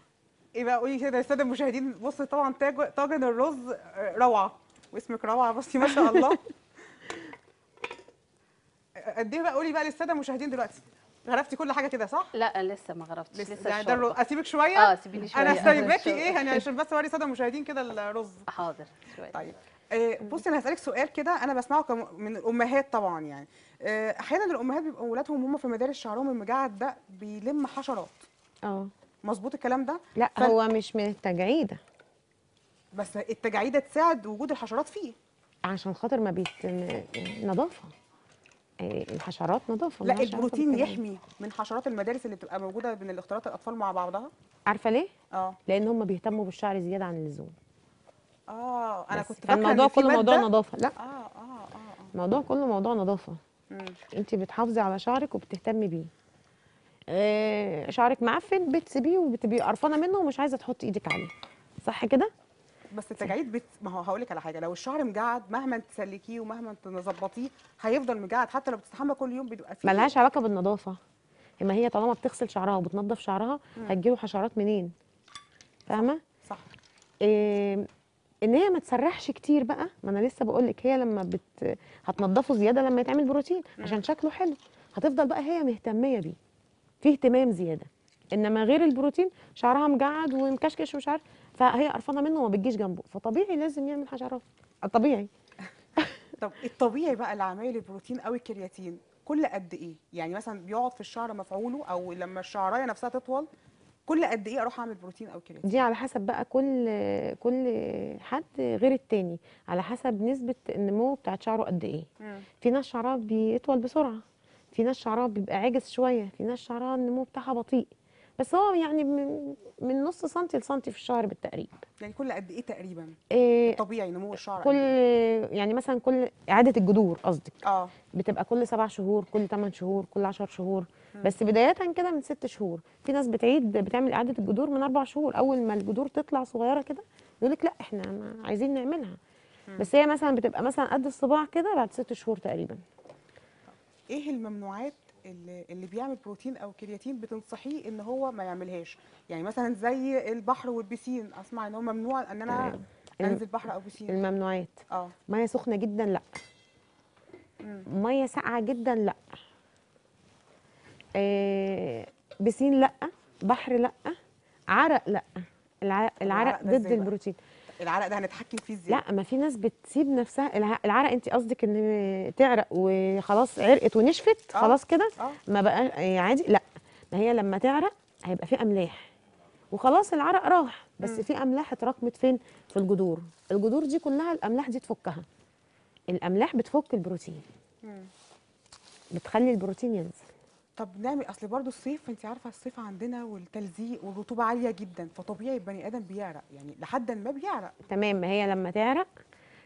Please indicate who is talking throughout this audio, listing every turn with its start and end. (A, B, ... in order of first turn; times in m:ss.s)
0:00.5-0:06.5 A
0:09.0-0:12.3 A
0:12.3-0:14.2 B
0:13.3-0:18.5 A
0:14.7-0:16.6 B
0:15.5-0:15.9 C
0:18.5-0:19.4 B
0:19.3-0:28.2 A
0:28.6-0:28.9 C
0:29.2-0:30.6 A
0:30.2-0:31.8 C
0:32.9-0:35.2 A
0:35.6-0:37.9 C
0:38.8-0:41.0 C
0:40.0-0:44.3 A
0:44.7-0:45.1 C
0:45.3-0:45.6 A
0:45.7-0:47.5 C
0:48.5-0:52.1 A
0:49.1-0:50.9 C
0:52.1-0:53.4 C
0:53.7-0:54.0 A
0:54.1-0:56.1 C
0:57.1-1:01.3 C
1:01.8-1:02.3 C
1:02.9-1:10.1 A
1:09.8-1:11.0 C
1:11.6-1:14.9 C
1:15.9-1:16.2 C
1:15.9-1:16.7 A
1:17.2-1:17.9 C
1:18.4-1:26.4 C
1:27.0-1:35.3 C
1:36.4-1:43.5 A
1:44.1-1:45.7 A
1:45.6-1:52.1 C
1:52.6-2:01.8 C
2:02.0-2:03.2 A
2:03.3-2:03.8 C
2:03.7-2:04.9 A
2:04.6-2:07.6 C
2:07.6-2:07.9 A
2:08.1-2:19.2 C
2:19.8-2:22.8 C
2:24.1-2:34.2 A
2:32.5-2:33.4 C
2:34.1-2:36.2 C
2:37.8-2:39.2 C
2:41.2-2:44.2 C
2:44.7-2:47.4 C
2:46.2-2:47.1 A
2:47.8-2:49.0 A
2:48.9-2:59.1 C
2:54.5-2:55.4 A
2:59.7-3:05.2 C
3:06.1-3:07.4 C
3:07.8-3:08.1 A
3:09.1-3:10.2 C
3:10.8-3:17.8 A
3:17.9-3:19.1 C